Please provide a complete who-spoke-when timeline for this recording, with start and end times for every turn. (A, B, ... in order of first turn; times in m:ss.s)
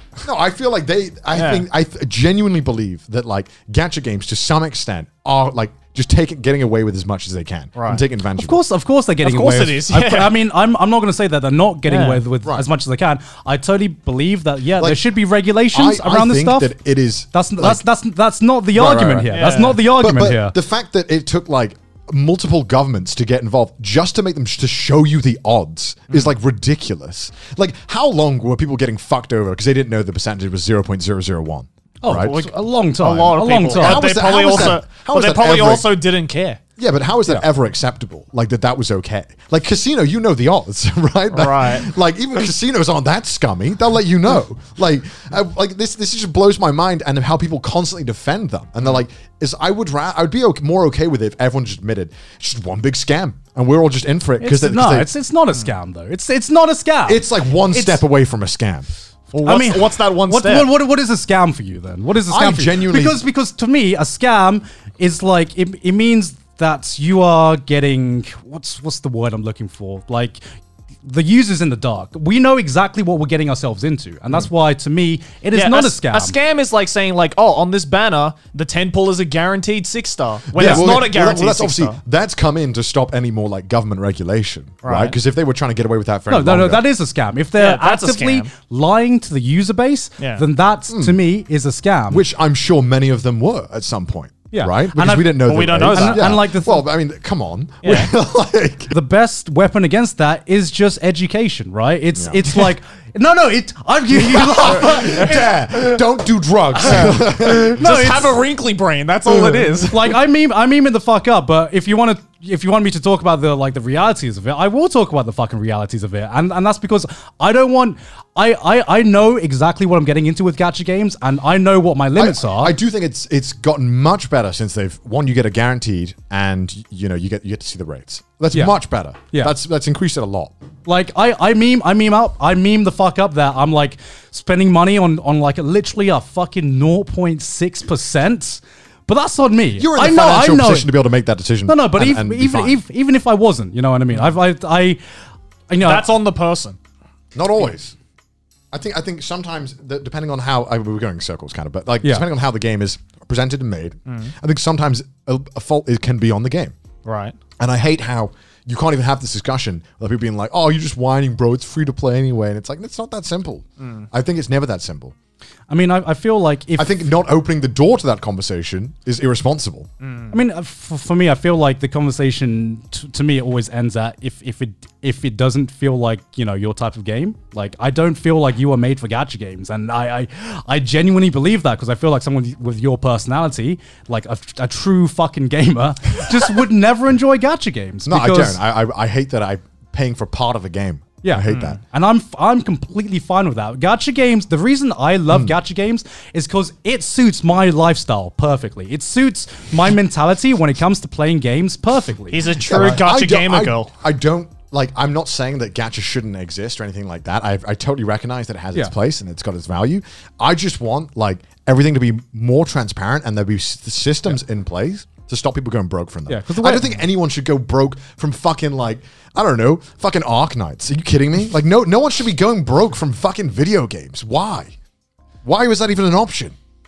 0:00.2-0:08.6 A
0:01.4-0:01.6 B
0:07.8-0:08.0 B
0:08.4-0:16.7 C
0:09.2-0:10.4 B
0:11.9-0:12.2 B
0:14.8-0:15.0 A
0:15.7-0:17.8 A
0:17.3-0:20.6 C
0:18.7-0:32.4 A
0:19.3-0:19.8 B
0:32.0-0:34.8 C
0:32.2-0:36.6 B
0:33.7-0:35.9 A
0:36.8-0:55.1 A
0:41.3-0:41.9 B
0:54.4-0:58.0 C
0:57.1-0:58.9 A
0:59.3-1:00.7 B
0:59.4-1:10.4 C
1:02.3-1:03.2 A
1:11.0-1:16.4 C
1:15.5-1:22.0 B
1:20.6-1:21.0 C
1:20.6-1:26.8 A
1:24.8-1:25.2 B
1:26.3-1:32.2 C
1:27.6-1:28.5 B
1:30.2-1:30.4 B
1:30.9-1:31.2 A
1:32.1-1:38.9 A
1:34.5-1:36.8 C
1:35.4-1:36.4 B
1:37.8-1:38.1 B
1:38.9-1:45.9 C
1:42.2-1:42.4 A
1:44.2-1:48.1 A
1:46.8-1:48.4 C
1:46.9-1:50.2 B
1:49.8-2:02.8 C
2:02.2-2:10.5 A
2:10.9-2:20.9 C
2:19.8-2:22.8 A
2:21.7-2:25.0 C
2:25.7-2:26.1 C
2:25.8-2:26.8 B
2:27.4-2:28.0 A
2:28.7-2:36.8 A
2:34.1-2:34.3 B
2:37.0-2:37.4 B
2:37.6-2:45.2 A
2:43.8-2:44.1 B
2:45.7-2:47.2 C
2:46.8-2:49.9 A
2:50.0-2:50.4 B
2:50.3-3:08.6 C
3:08.1-3:11.8 A
3:11.2-3:23.0 C
3:11.5-3:11.7 B
3:22.3-3:23.9 B
3:22.6-3:44.8 A
3:36.3-3:37.0 C
3:45.4-3:46.6 A